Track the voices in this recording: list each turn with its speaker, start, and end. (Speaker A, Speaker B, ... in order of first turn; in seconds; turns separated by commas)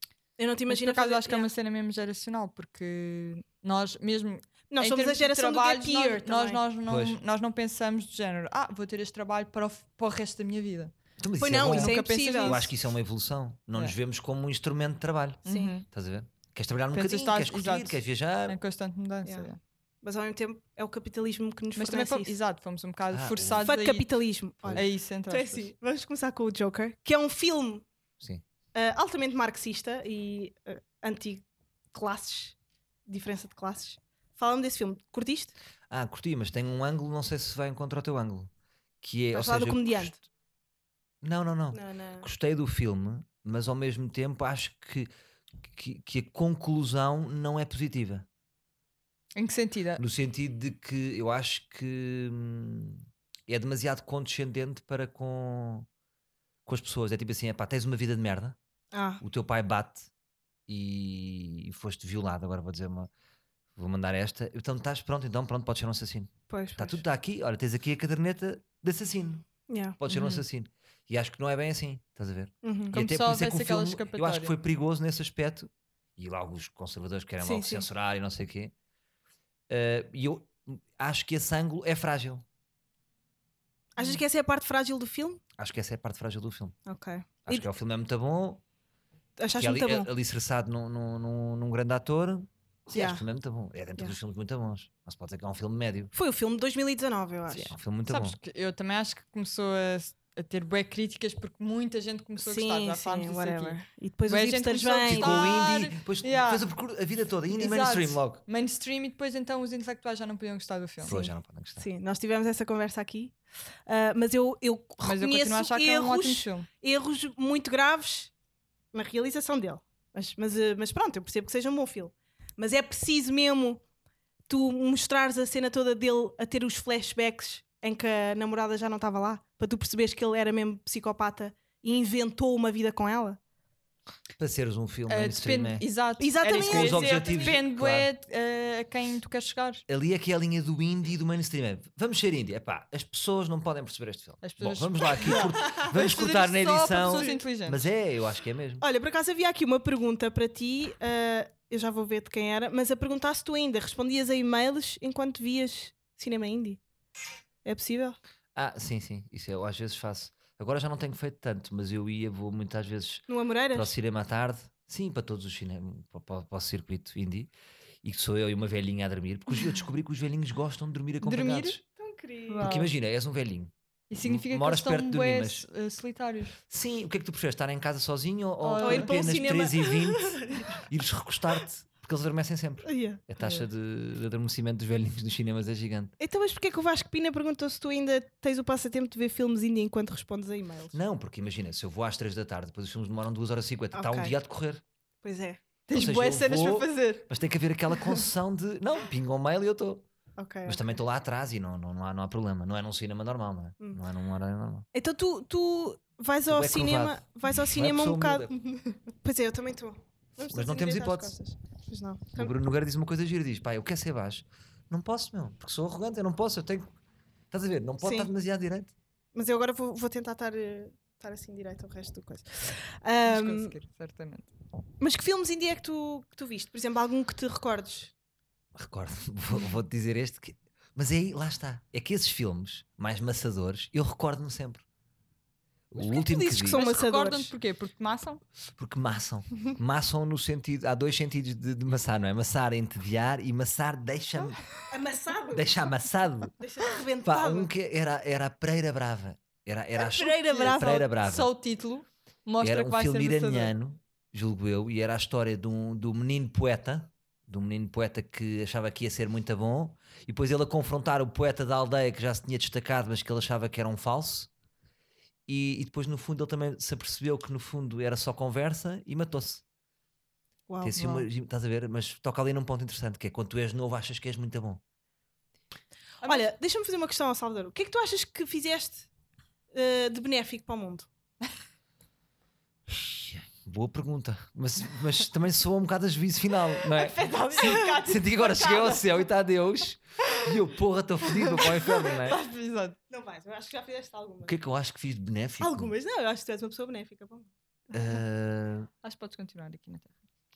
Speaker A: 0.4-1.5, Speaker B: 0.7-10.9, Speaker A: 4.7-6.6, Speaker C: 6.9-7.2, Speaker C: 11.2-18.6, Speaker A: 11.4-12.7, Speaker B: 11.6-12.7, Speaker B: 15.4-15.8, Speaker A: 15.4-15.7, Speaker B: 16.9-19.6, Speaker A: 19.2-19.5, Speaker A: 20.0-22.4, Speaker B: 21.8-24.1, Speaker C: 23.1-23.7, Speaker A: 23.6-27.8, Speaker B: 24.7-25.7, Speaker A: 28.7-32.5, Speaker A: 33.1-35.5, Speaker C: 35.9-38.5, Speaker C: 39.0-40.2, Speaker A: 39.3-40.1, Speaker C: 41.2-45.1, Speaker A: 41.7-42.3, Speaker C: 45.7-48.2, Speaker B: 49.4-50.0, Speaker C: 50.0-55.9, Speaker C: 56.6-58.6, Speaker A: 58.9-59.2, Speaker C: 59.2-60.1, Speaker C: 60.7-63.1, Speaker C: 63.8-69.5, Speaker A: 66.5-67.0, Speaker A: 69.7-70.0, Speaker C: 70.0-78.7, Speaker B: 70.1-70.4, Speaker A: 72.6-73.0, Speaker B: 72.9-74.5, Speaker A: 77.4-77.9, Speaker C: 79.7-82.4, Speaker A: 84.0-85.4, Speaker C: 85.6-86.8, Speaker A: 86.8-87.7, Speaker C: 87.5-88.6, Speaker A: 89.4-90.1, Speaker C: 89.6-96.1, Speaker A: 92.9-93.2, Speaker A: 96.1-97.7, Speaker C: 97.5-98.4, Speaker B: 98.1-106.6, Speaker A: 102.4-105.6, Speaker C: 105.0-108.4, Speaker B: 107.5-111.1, Speaker C: 111.0-111.9, Speaker A: 111.0-113.3, Speaker A: 113.9-118.3, Speaker B: 115.0-116.7, Speaker A: 118.9-123.8, Speaker A: 124.5-133.4, Speaker C: 134.4-135.8, Speaker B: 135.1-139.8, Speaker A: 136.2-137.6, Speaker C: 136.4-138.1, Speaker C: 139.9-148.8, Speaker B: 144.4-147.8, Speaker A: 145.2-145.9, Speaker A: 147.1-147.4, Speaker A: 148.8-156.8, Speaker A: 157.6-158.2, Speaker C: 158.5-167.5, Speaker A: 163.3-163.9, Speaker C: 168.0-171.8, Speaker B: 171.2-171.8, Speaker A: 172.0-172.7, Speaker B: 172.5-172.9, Speaker C: 172.6-175.7, Speaker B: 174.1-176.6, Speaker C: 176.7-186.1, Speaker B: 178.6-179.1, Speaker A: 178.8-180.8, Speaker A: 182.8-183.2, Speaker B: 183.4-183.7, Speaker A: 186.2-191.0, Speaker C: 190.9-194.8, Speaker A: 193.9-194.3, Speaker A: 195.2-195.6, Speaker B: 195.9-197.3, Speaker C: 195.9-200.0, Speaker A: 200.4-200.8, Speaker C: 200.7-204.9, Speaker A: 204.9-212.5, Speaker C: 206.5-208.5, Speaker C: 210.5-211.4, Speaker C: 212.3-216.9, Speaker C: 217.5-218.9, Speaker A: 218.0-218.3, Speaker A: 219.3-223.7, Speaker B: 223.2-224.5, Speaker A: 225.0-228.1, Speaker C: 228.7-234.8, Speaker C: 235.9-236.8, Speaker A: 235.9-237.5, Speaker B: 236.7-238.4, Speaker C: 238.8-244.6, Speaker A: 244.9-245.7, Speaker C: 245.5-246.5, Speaker A: 246.6-247.7, Speaker C: 247.2-251.5, Speaker A: 249.9-251.1, Speaker B: 251.2-253.7, Speaker C: 252.6-264.5, Speaker C: 265.5-269.6, Speaker A: 270.7-271.3, Speaker C: 270.8-274.8, Speaker B: 276.2-276.5, Speaker A: 276.2-279.1, Speaker A: 279.7-281.1, Speaker C: 282.9-292.4, Speaker B: 286.9-288.0, Speaker A: 287.0-289.2, Speaker B: 291.2-293.0, Speaker A: 293.1-294.5, Speaker C: 294.4-295.9, Speaker A: 295.6-297.5, Speaker C: 297.9-298.9, Speaker B: 299.0-300.1